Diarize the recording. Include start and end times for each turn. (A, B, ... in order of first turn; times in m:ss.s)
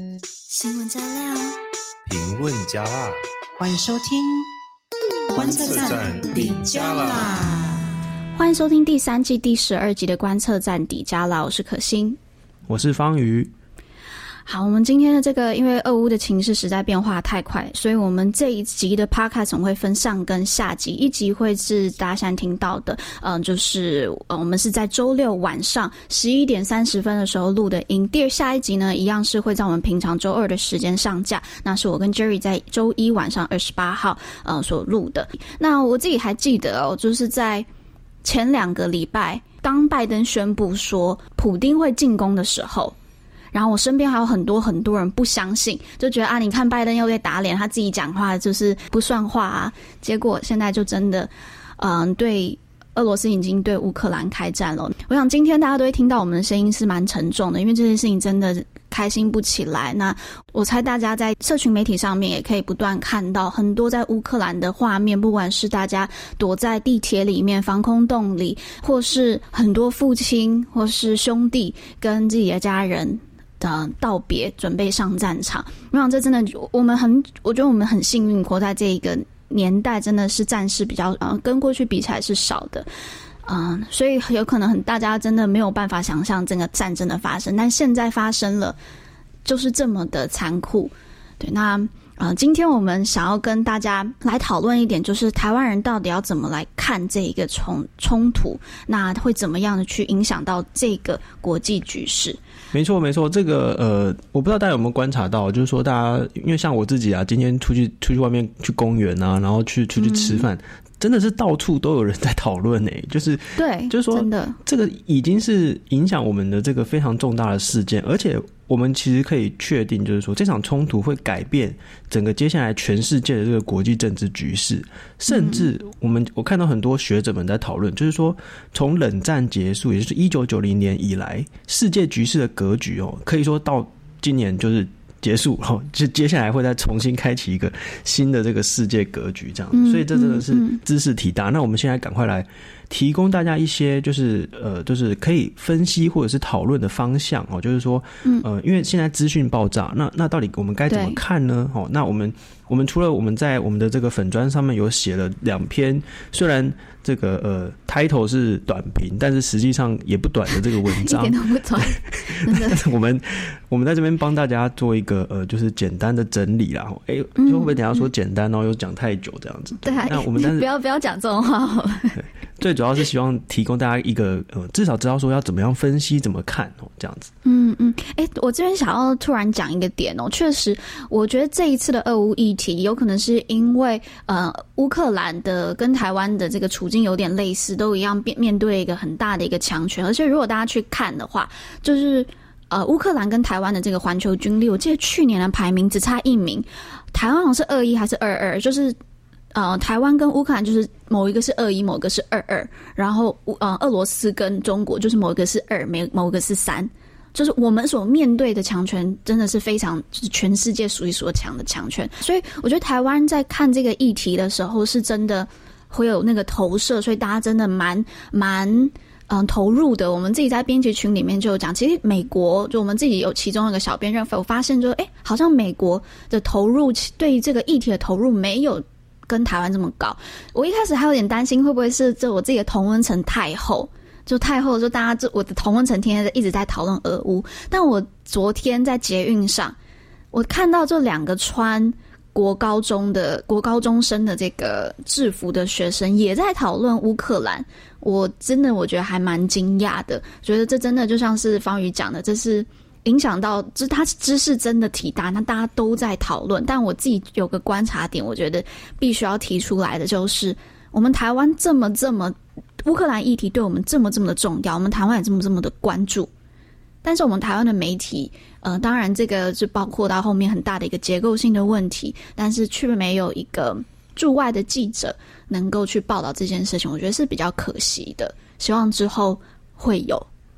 0:00.5-0:01.5 A
0:02.1-0:03.2 B
0:03.6-0:04.5 C
0:05.3-0:07.9 C
0:05.3-0:07.5 B
0:08.4-0:12.2 A
0:12.7-0:13.5 D
0:14.5-0:37.7 A
0:38.2-0:43.0 A
0:43.5-1:22.9 A
1:23.5-1:28.8 A
1:29.4-1:42.4 A
1:42.7-2:50.7 D
1:50.0-1:50.5 A
1:53.6-1:54.6 A
2:05.3-2:05.7 A
2:19.7-2:20.8 A
2:30.9-2:31.2 A
2:40.8-2:42.8 A
2:47.4-2:48.0 A
2:49.8-2:52.2 A
2:52.2-2:57.3 D
2:57.4-3:19.0 A
3:19.5-3:59.8 A
4:00.3-4:26.3 A
4:27.0-4:40.3 A